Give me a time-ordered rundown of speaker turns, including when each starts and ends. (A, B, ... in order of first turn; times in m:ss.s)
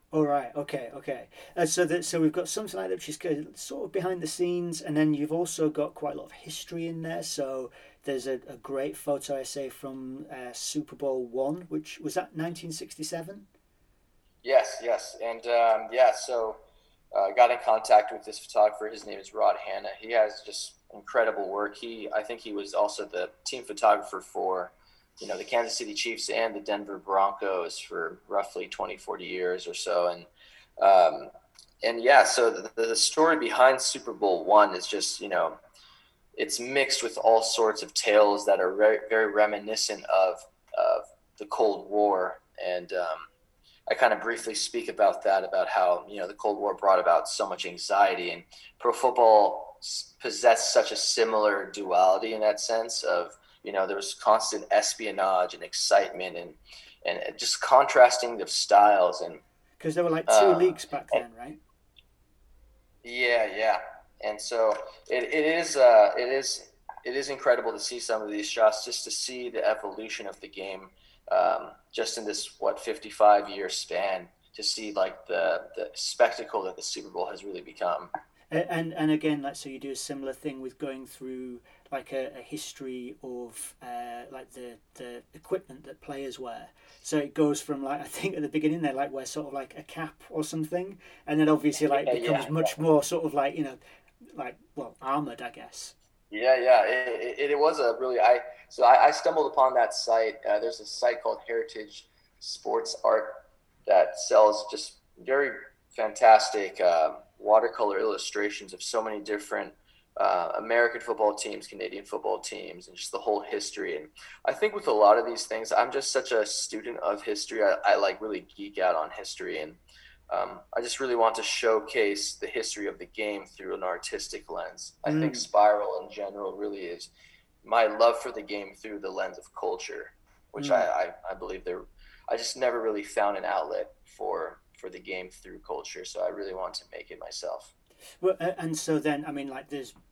0:00.1-0:13.4 A
0:14.4-0:16.6 B
0:17.1-0:35.6 B
0:36.4-0:43.3 B
0:43.9-0:59.4 B
0:59.8-1:01.6 A
1:00.3-1:00.8 B
1:03.0-1:18.1 B
1:18.5-1:33.8 A
1:31.9-1:32.7 B
1:34.3-1:35.9 A
1:36.3-2:07.1 B
2:05.0-2:05.5 A
2:07.6-2:17.7 B
2:10.6-2:10.9 A
2:18.2-2:20.0 A